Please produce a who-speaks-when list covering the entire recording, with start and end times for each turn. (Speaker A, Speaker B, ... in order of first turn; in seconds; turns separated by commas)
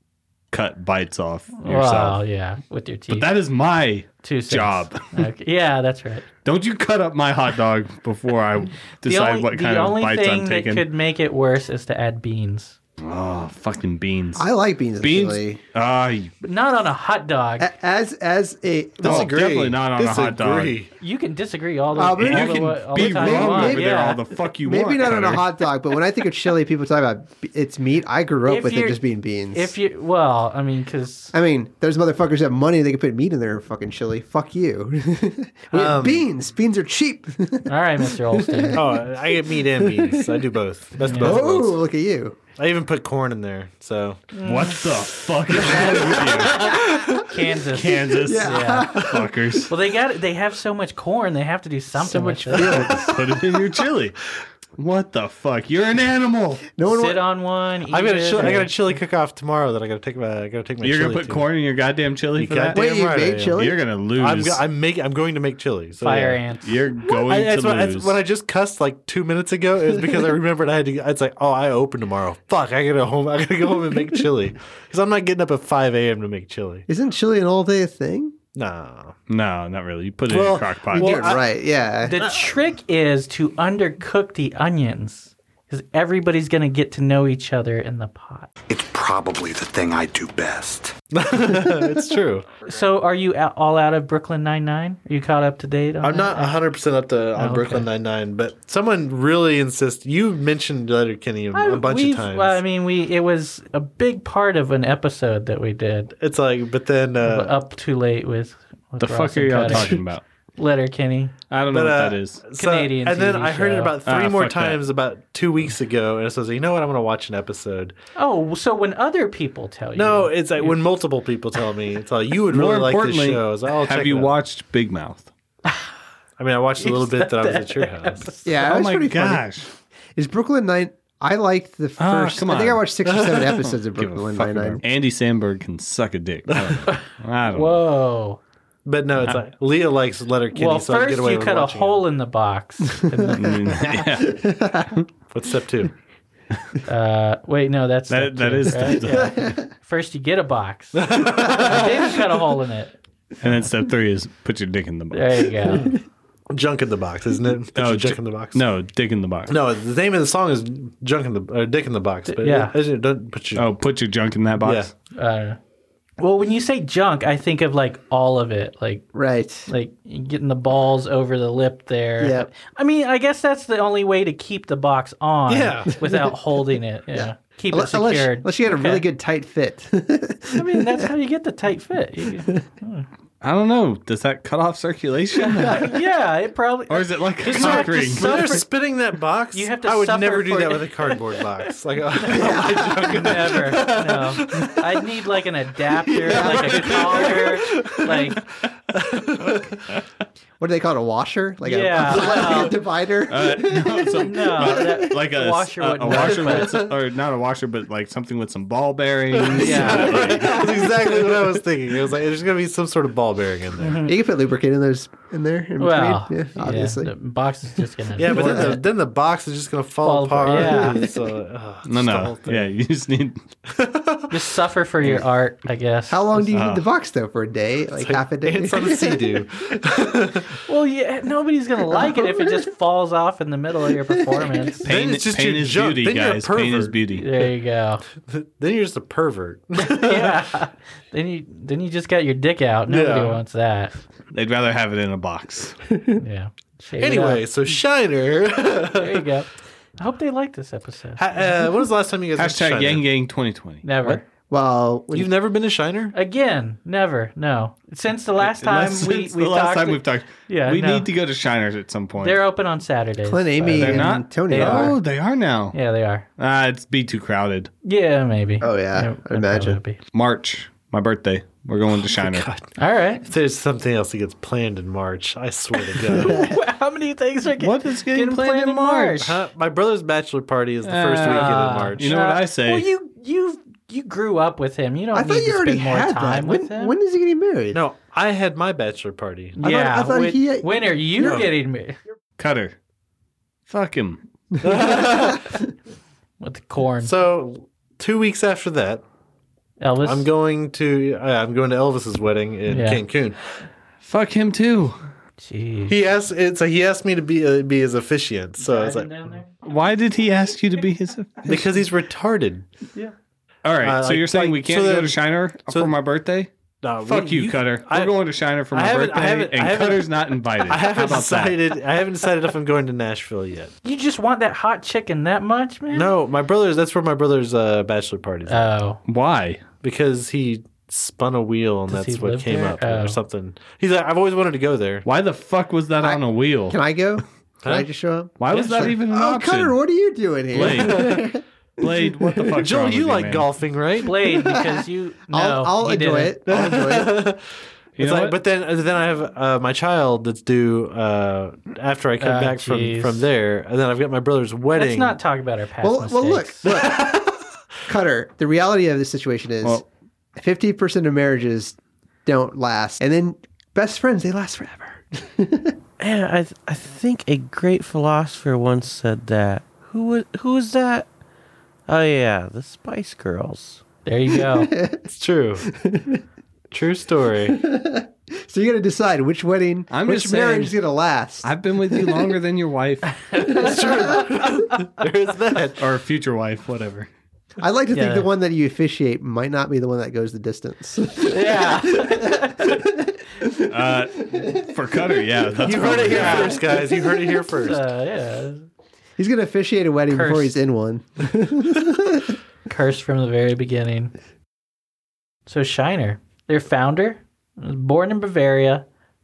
Speaker A: 0.5-2.2, Speaker B: 1.6-3.2, Speaker A: 3.1-5.0, Speaker B: 4.2-6.2, Speaker A: 6.4-10.8, Speaker B: 9.0-12.8, Speaker A: 13.0-14.5, Speaker C: 14.3-15.6, Speaker A: 15.0-16.3, Speaker B: 16.4-17.7, Speaker C: 17.6-19.4, Speaker A: 19.0-20.8, Speaker D: 19.0-20.9, Speaker B: 21.0-24.2, Speaker C: 21.9-29.7, Speaker A: 22.1-25.4, Speaker B: 28.5-29.0, Speaker B: 29.5-31.3, Speaker C: 31.3-40.5, Speaker D: 35.7-36.2, Speaker B: 37.7-38.8, Speaker D: 38.7-41.8, Speaker B: 41.0-41.4, Speaker C: 41.1-42.4, Speaker D: 42.6-44.2, Speaker B: 44.3-44.9, Speaker A: 44.4-46.8, Speaker C: 45.6-47.1, Speaker B: 46.2-48.9, Speaker D: 46.7-47.0, Speaker A: 47.7-49.7, Speaker C: 48.1-49.4, Speaker B: 49.7-52.7, Speaker C: 52.3-53.1, Speaker A: 52.5-54.1, Speaker A: 54.8-56.7, Speaker C: 56.8-57.2, Speaker B: 56.8-58.9, Speaker D: 57.9-61.5, Speaker A: 60.8-62.8, Speaker D: 62.4-63.6, Speaker C: 62.7-63.8, Speaker A: 63.5-64.6, Speaker D: 64.2-66.4, Speaker B: 66.0-66.7, Speaker A: 66.6-68.2, Speaker D: 67.0-76.8, Speaker C: 76.9-78.3, Speaker D: 78.5-79.1, Speaker A: 79.3-81.3, Speaker D: 80.3-81.4, Speaker C: 80.9-82.5, Speaker B: 82.0-88.5, Speaker E: 88.7-90.9, Speaker D: 91.1-92.5, Speaker B: 92.6-96.6, Speaker D: 96.0-102.6, Speaker B: 97.3-97.9, Speaker B: 101.5-106.1, Speaker D: 106.2-107.5, Speaker B: 107.2-110.0, Speaker A: 109.0-110.2, Speaker B: 110.6-111.3, Speaker A: 111.5-112.4, Speaker D: 111.7-117.9, Speaker B: 112.5-114.0, Speaker A: 114.0-114.8, Speaker B: 118.2-120.8, Speaker D: 120.0-124.3, Speaker A: 122.5-125.3, Speaker D: 126.4-128.3, Speaker B: 126.8-128.5, Speaker C: 128.4-129.5, Speaker A: 128.6-129.7, Speaker C: 130.1-134.8, Speaker A: 132.0-137.8, Speaker D: 133.1-133.5, Speaker D: 136.5-136.8, Speaker B: 136.9-138.4, Speaker D: 138.8-142.0, Speaker B: 140.5-143.5, Speaker C: 143.1-144.9, Speaker A: 143.3-145.0, Speaker D: 145.3-145.9, Speaker B: 146.8-152.9, Speaker A: 148.1-149.5, Speaker C: 149.1-149.7, Speaker D: 150.9-152.2, Speaker A: 153.4-155.7, Speaker B: 155.1-156.0, Speaker D: 156.5-158.6, Speaker A: 157.7-159.5, Speaker D: 159.5-163.7, Speaker B: 162.3-162.7, Speaker A: 163.5-164.9, Speaker D: 164.6-164.9, Speaker B: 165.1-165.6, Speaker B: 166.2-169.1, Speaker C: 169.1-169.7, Speaker B: 169.7-179.0, Speaker C: 172.2-172.5, Speaker D: 175.5-176.0, Speaker C: 177.1-181.1, Speaker B: 180.5-183.1, Speaker A: 183.4-186.0, Speaker B: 185.4-188.6, Speaker A: 186.9-188.6, Speaker D: 187.4-194.9, Speaker B: 189.5-191.7, Speaker C: 192.3-193.4, Speaker B: 192.3-198.4, Speaker D: 196.3-199.8, Speaker C: 196.3-197.4, Speaker C: 200.6-205.2, Speaker B: 201.6-202.8, Speaker A: 203.3-210.8, Speaker B: 204.2-206.8, Speaker D: 209.3-214.0, Speaker B: 209.6-210.2, Speaker B: 213.8-214.1, Speaker C: 214.0-217.1, Speaker B: 215.8-218.8, Speaker D: 218.2-222.7, Speaker C: 218.3-218.7, Speaker B: 220.0-221.0, Speaker C: 220.5-221.2, Speaker A: 221.8-223.4, Speaker D: 223.7-224.3, Speaker B: 224.3-226.5, Speaker C: 226.1-229.4, Speaker A: 226.5-226.8, Speaker D: 228.0-230.5, Speaker B: 230.7-234.8, Speaker C: 232.1-232.5, Speaker C: 234.1-234.7, Speaker A: 234.8-237.2, Speaker D: 234.8-236.9, Speaker B: 237.1-238.0, Speaker D: 238.3-240.4, Speaker B: 239.8-244.0, Speaker D: 242.9-243.4, Speaker A: 244.3-245.8, Speaker B: 246.2-247.4, Speaker D: 247.0-249.3, Speaker B: 248.9-251.5, Speaker D: 251.2-253.0, Speaker A: 252.3-253.8, Speaker B: 253.8-254.2, Speaker C: 254.5-255.3, Speaker D: 255.1-256.1, Speaker B: 256.1-261.1, Speaker A: 258.4-262.4, Speaker B: 262.2-265.0, Speaker C: 263.2-265.0, Speaker A: 263.7-265.8, Speaker B: 265.7-266.3, Speaker A: 266.4-267.7, Speaker B: 267.8-270.0, Speaker C: 268.6-269.8, Speaker A: 270.1-272.5, Speaker D: 272.0-272.7, Speaker B: 272.8-273.2, Speaker D: 273.2-276.5, Speaker B: 276.1-279.4, Speaker C: 276.2-276.5, Speaker A: 277.6-279.2, Speaker D: 279.2-282.2, Speaker A: 280.8-282.9, Speaker B: 281.2-286.9, Speaker C: 285.1-287.8, Speaker D: 287.7-289.7, Speaker B: 289.6-292.0, Speaker C: 289.6-291.5, Speaker D: 291.2-291.5, Speaker A: 292.4-292.8, Speaker A: 293.7-294.2, Speaker C: 294.5-295.6, Speaker D: 294.6-295.5, Speaker B: 296.4-297.1, Speaker D: 297.0-299.0, Speaker B: 299.8-300.3, Speaker D: 300.0-303.4, Speaker B: 302.7-303.0, Speaker A: 304.0-305.0, Speaker B: 305.4-306.0, Speaker D: 305.9-309.1, Speaker B: 308.6-309.5, Speaker A: 309.6-311.8, Speaker D: 311.4-312.6, Speaker A: 313.6-316.5, Speaker D: 313.8-315.9, Speaker D: 316.8-318.1, Speaker A: 317.0-321.7, Speaker D: 318.7-323.7, Speaker B: 323.8-326.1, Speaker D: 325.9-328.7, Speaker B: 328.5-329.0, Speaker A: 329.1-329.6, Speaker D: 329.8-335.1, Speaker B: 331.9-333.2, Speaker A: 335.0-336.8, Speaker C: 336.0-342.6, Speaker D: 337.6-337.9, Speaker A: 338.4-339.8, Speaker D: 338.5-338.9, Speaker A: 340.5-341.3, Speaker D: 340.6-341.2, Speaker A: 341.8-343.5, Speaker D: 342.6-344.2, Speaker B: 344.0-346.4, Speaker C: 344.2-347.2, Speaker D: 346.5-347.4, Speaker A: 348.0-348.4, Speaker D: 348.0-355.2, Speaker B: 352.2-353.3, Speaker B: 354.7-356.7, Speaker C: 355.8-357.2, Speaker D: 356.6-357.3, Speaker C: 357.9-359.8, Speaker C: 360.4-365.7, Speaker F: 366.0-371.1, Speaker F: 371.9-373.8, Speaker B: 374.1-374.7, Speaker C: 374.3-375.1, Speaker D: 375.1-375.6, Speaker C: 375.6-376.2, Speaker D: 376.7-377.6, Speaker C: 377.4-382.4, Speaker A: 379.9-380.8, Speaker A: 381.4-383.2, Speaker B: 383.3-384.2, Speaker D: 383.5-385.8, Speaker A: 385.8-387.1, Speaker C: 387.6-395.0, Speaker B: 387.9-388.3, Speaker B: 391.2-392.8, Speaker A: 393.7-396.6, Speaker D: 395.6-397.8, Speaker B: 395.8-398.6, Speaker C: 399.2-402.4, Speaker B: 400.1-400.5, Speaker B: 402.7-404.1, Speaker B: 405.5-408.9